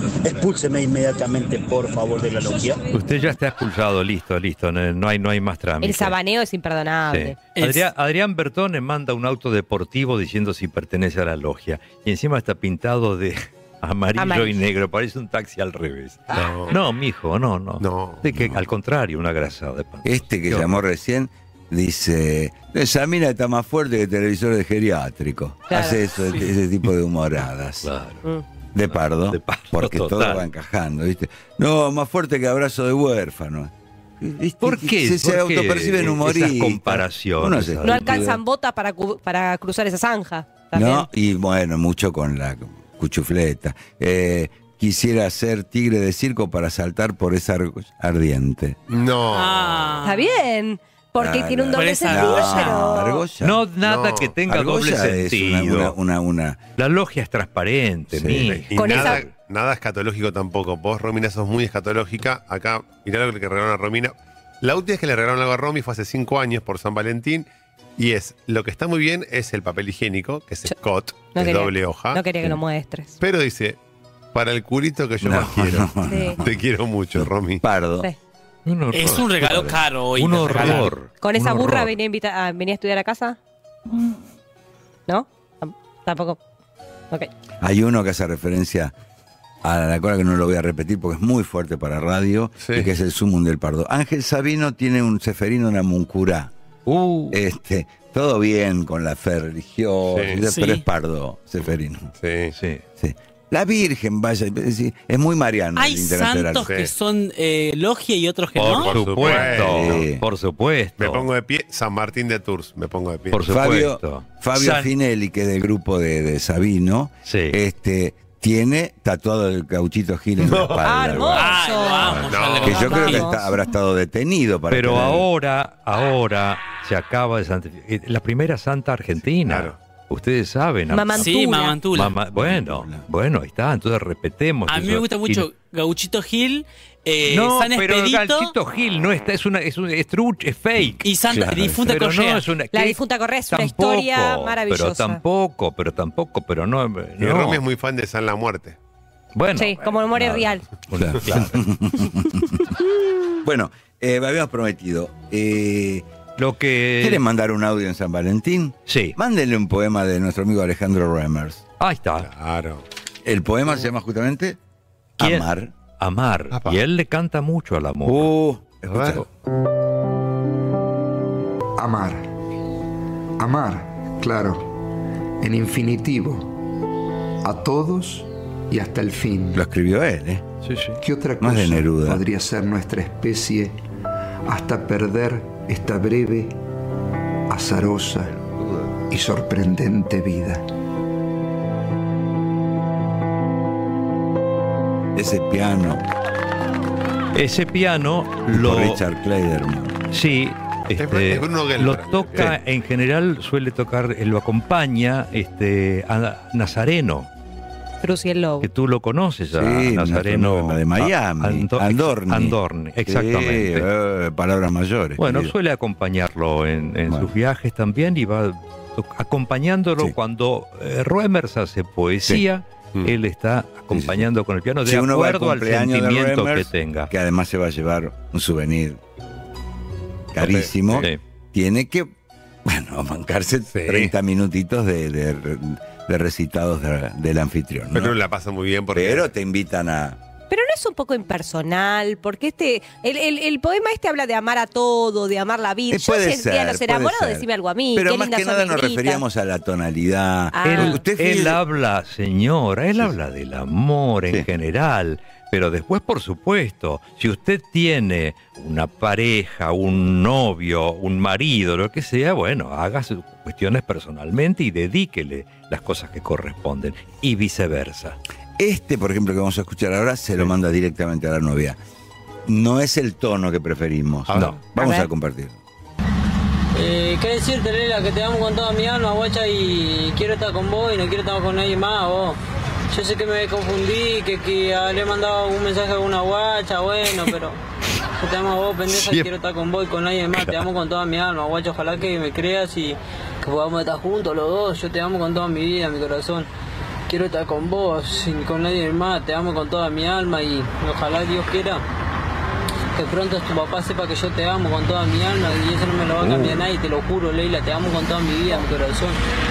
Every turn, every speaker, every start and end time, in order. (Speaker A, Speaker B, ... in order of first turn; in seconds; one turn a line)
Speaker A: 0.2-2.8
Speaker B: 2.9-6.2
Speaker C: 5.8-7.4
Speaker B: 7.1-20.8
Speaker D: 7.5-7.9
Speaker C: 14.2-14.6
Speaker E: 16.3-16.8
Speaker E: 17.8-18.2
Speaker F: 18.3-18.6
Speaker F: 20.1-27.9
Speaker C: 25.7-26.0
Speaker B: 27.8-28.2
Speaker F: 28.7-38.4
Speaker B: 28.9-30.5
Speaker B: 34.6-38.3
Speaker C: 37.8-41.1
Speaker F: 40.7-48.8
Speaker E: 48.9-50.0
Speaker D: 49.3-50.3
Speaker C: 50.0-53.2
Speaker F: 51.2-53.6
Speaker D: 51.7-52.9
Speaker B: 53.4-56.0
Speaker E: 53.8-54.3
Speaker F: 54.5-56.6
Speaker B: 56.8-59.0
Speaker F: 58.1-58.6
Speaker E: 58.4-72.2
Speaker C: 58.8-59.2
Speaker C: 71.3-73.2
Speaker E: 73.2-73.8
Speaker E: 74.3-75.9
Speaker F: 75.2-76.6
Speaker C: 76.0-76.4
Speaker E: 76.4-77.6
Speaker F: 77.1-78.1
Speaker B: 78.7-82.0
Speaker D: 78.9-80.9
Speaker C: 81.2-83.4
Speaker C: 85.1-86.4
Speaker F: 87.6-88.9
Speaker F: 89.6-96.5
Speaker E: 92.6-92.9
Speaker B: 96.9-97.4
Speaker F: 97.3-102.1
Speaker E: 100.1-100.4
Speaker D: 100.4-100.8
Speaker E: 102.2-102.5
Speaker B: 102.6-102.8
Speaker F: 103.0-106.7
Speaker D: 105.8-109.5
Speaker E: 106.6-106.9
Speaker B: 108.6-111.3
Speaker E: 108.7-110.0
Speaker F: 109.5-110.2
Speaker E: 111.0-113.4
Speaker B: 113.3-114.9
Speaker F: 113.5-121.5
Speaker B: 117.3-117.6
Speaker E: 120.5-120.8
Speaker C: 120.8-123.5
Speaker D: 121.3-123.3
Speaker E: 122.3-122.8
Speaker F: 122.6-125.3
Speaker B: 124.7-135.5
Speaker E: 129.5-129.8
Speaker C: 130.9-131.8
Speaker D: 131.2-132.2
Speaker F: 132.3-133.0
Speaker D: 134.7-138.5
Speaker B: 137.3-147.6
Speaker F: 140.8-141.8
Speaker D: 141.0-142.4
Speaker C: 142.7-145.2
Speaker E: 147.2-148.8
Speaker B: 149.3-151.6
Speaker C: 149.6-150.6
Speaker F: 151.0-152.6
Speaker F: 153.4-156.1
Speaker B: 156.4-157.2
Speaker F: 157.0-161.6
Speaker B: 158.9-159.2
Speaker B: 161.8-162.3
Speaker E: 162.2-162.8
Speaker F: 163.2-164.6
Speaker F: 165.2-165.7
Speaker B: 165.2-168.3
Speaker E: 166.5-166.8
Speaker F: 168.1-169.2
Speaker E: 168.9-169.2
Speaker G: 171.8-172.2
Speaker G: 173.4-174.7
Speaker G: 175.4-176.5
Speaker G: 177.4-179.6
Speaker F: 179.5-180.4
Speaker B: 180.6-181.0
Speaker G: 181.0-183.7
Speaker F: 181.4-182.2
Speaker G: 184.5-186.5
Speaker G: 187.5-188.3
Speaker F: 188.6-188.9
Speaker G: 189.1-190.6
Speaker F: 195.2-196.1
Speaker B: 197.3-199.0
Speaker F: 198.5-200.0
Speaker B: 200.1-207.3
Speaker E: 201.0-202.6
Speaker C: 208.0-208.7
Speaker B: 208.6-213.9
Speaker F: 209.5-215.5
Speaker B: 215.2-227.1
Speaker F: 223.9-224.3
Speaker F: 224.8-229.0
Speaker F: 230.3-232.1
Speaker E: 230.4-231.1
Speaker F: 232.7-238.2
Speaker E: 233.7-234.1
Speaker E: 237.9-239.3
Speaker F: 238.9-240.2
Speaker C: 240.5-249.2
Speaker F: 245.9-251.6
Speaker C: 250.5-251.0
Speaker B: 250.7-268.2
Speaker F: 268.6-271.8
Speaker F: 272.5-275.6
Speaker E: 274.3-274.6
Speaker C: 274.8-275.1
Speaker H: 276.7-282.4
Speaker H: 282.9-287.6
Speaker H: 288.2-296.5
Speaker E: 288.9-289.3
Speaker H: 297.1-301.8
Speaker H: 302.9-309.2
Speaker B: 306.2-306.7